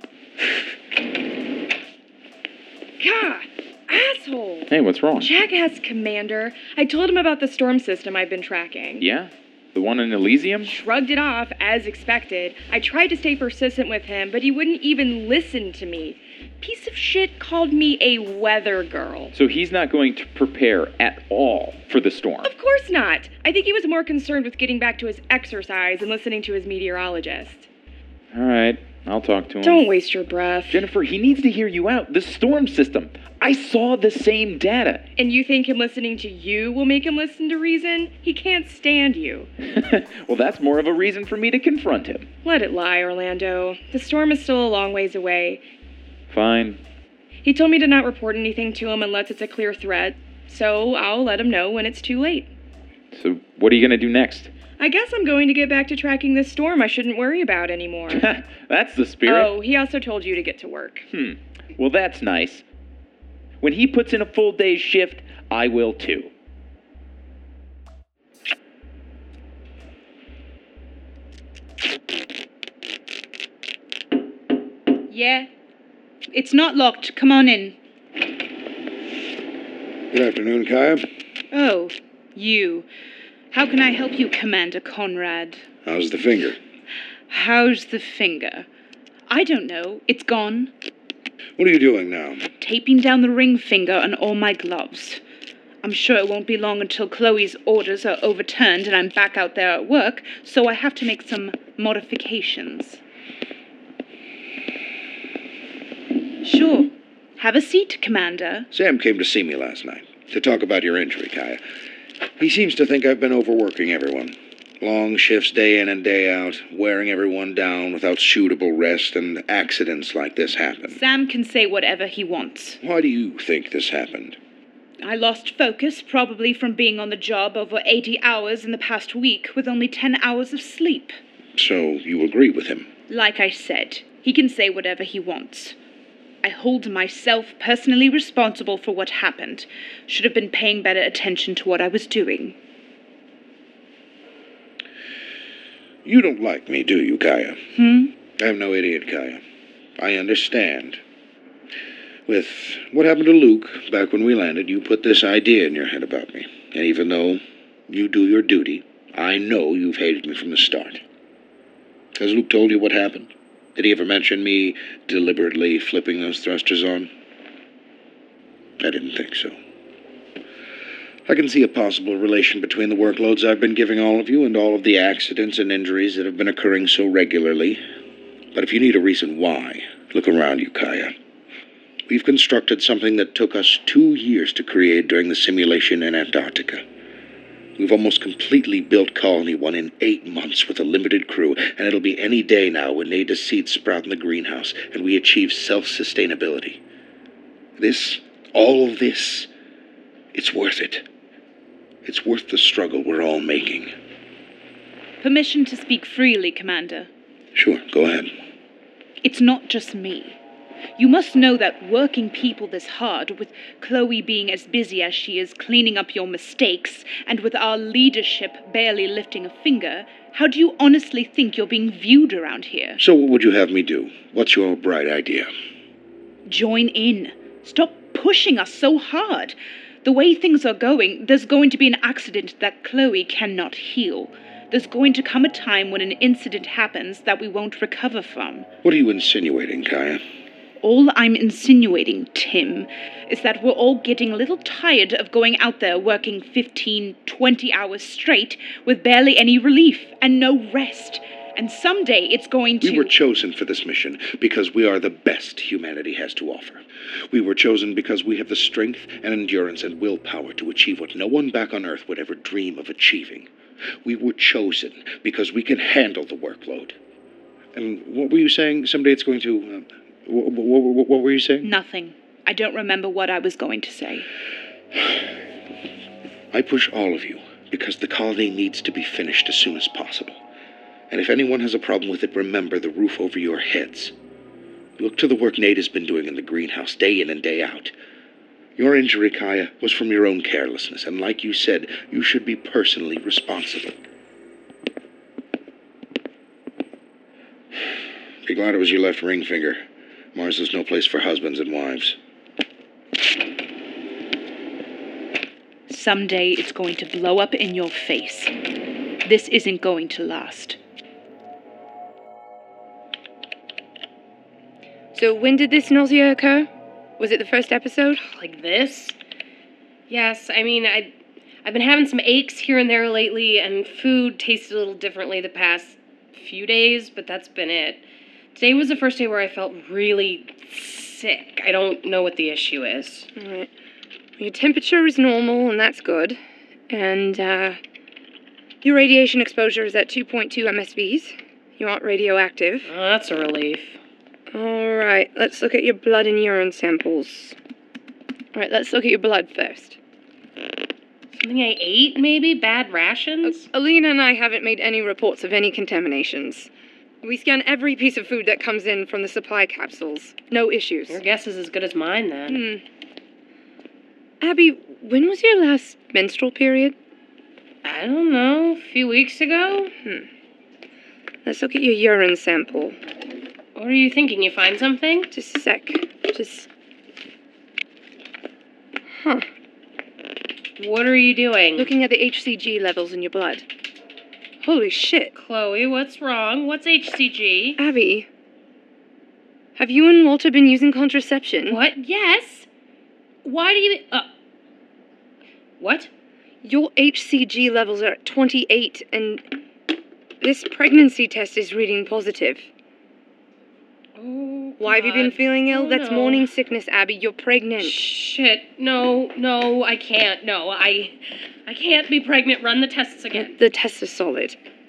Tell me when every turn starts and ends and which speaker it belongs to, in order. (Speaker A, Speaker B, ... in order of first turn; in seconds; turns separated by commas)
Speaker A: 3.0-9.0, Speaker B: 4.7-5.3, Speaker B: 9.0-10.7, Speaker A: 10.6-19.3, Speaker B: 19.3-22.5, Speaker A: 22.4-27.7, Speaker B: 28.3-29.9, Speaker A: 29.6-30.8, Speaker B: 30.7-35.0, Speaker A: 35.2-39.5, Speaker B: 39.7-42.3, Speaker A: 42.4-45.6, Speaker B: 46.3-46.8, Speaker A: 47.4-52.5, Speaker B: 53.1-54.5, Speaker A: 54.8-58.2, Speaker B: 58.1-59.5, Speaker A: 59.2-61.1, Speaker B: 61.1-62.6, Speaker B: 63.6-66.3, Speaker C: 75.1-75.5, Speaker C: 76.3-77.8, Speaker D: 80.1-81.0, Speaker C: 81.5-82.9, Speaker C: 83.5-85.6, Speaker D: 85.8-86.6, Speaker C: 87.3-88.7, Speaker C: 89.3-90.7, Speaker D: 91.6-92.5, Speaker C: 92.6-95.2, Speaker C: 95.8-103.0, Speaker C: 106.4-108.7, Speaker D: 108.7-111.6, Speaker D: 112.4-121.0, Speaker C: 120.9-122.8, Speaker D: 122.8-124.4, Speaker C: 125.0-131.1, Speaker D: 131.6-132.9, Speaker C: 133.1-135.8, Speaker C: 136.4-142.6, Speaker D: 146.1-147.6, Speaker C: 147.8-148.1, Speaker D: 148.4-149.4, Speaker D: 150.0-151.0, Speaker D: 152.3-161.0, Speaker D: 162.1-167.1, Speaker D: 168.8-169.6, Speaker D: 171.3-177.8, Speaker D: 178.5-181.1, Speaker D: 182.1-186.8, Speaker D: 187.8-196.8, Speaker D: 197.8-199.5, Speaker D: 200.3-201.1, Speaker D: 202.0-203.9, Speaker C: 205.2-207.1, Speaker D: 207.6-208.3, Speaker C: 209.2-210.4, Speaker C: 211.0-223.0, Speaker D: 223.0-225.5, Speaker C: 226.5-238.7, Speaker D: 238.8-240.2, Speaker C: 240.8-253.1, Speaker D: 252.8-263.5, Speaker D: 264.0-266.9, Speaker D: 267.7-271.7, Speaker C: 271.6-274.2, Speaker D: 276.5-280.4, Speaker D: 281.1-284.1, Speaker D: 285.0-287.9, Speaker D: 288.8-294.0, Speaker D: 298.4-299.8, Speaker D: 300.3-302.2, Speaker C: 305.9-308.5, Speaker C: 309.2-310.8, Speaker E: 315.1-318.2, Speaker F: 318.3-319.1, Speaker F: 320.1-321.1, Speaker F: 321.6-333.3, Speaker E: 333.4-333.7, Speaker E: 334.4-337.8, Speaker E: 338.8-342.9, Speaker F: 342.9-344.0, Speaker E: 344.5-347.6, Speaker E: 348.5-350.0, Speaker F: 351.3-353.7, Speaker E: 353.4-356.7, Speaker E: 357.2-361.2, Speaker F: 361.1-362.6, Speaker E: 362.5-362.8, Speaker E: 364.4-366.9, Speaker F: 367.8-369.9, Speaker E: 371.4-373.0, Speaker F: 373.7-375.3, Speaker E: 375.3-376.7, Speaker F: 380.8-381.9, Speaker E: 381.8-383.7, Speaker E: 384.6-385.3, Speaker F: 385.4-387.8, Speaker E: 387.8-388.3, Speaker E: 389.8-391.8, Speaker F: 391.6-392.7, Speaker F: 393.4-394.3, Speaker F: 395.8-396.1, Speaker E: 396.6-399.4, Speaker E: 400.4-402.7, Speaker F: 404.2-406.5, Speaker E: 404.8-408.1, Speaker F: 407.8-413.6, Speaker E: 413.3-414.6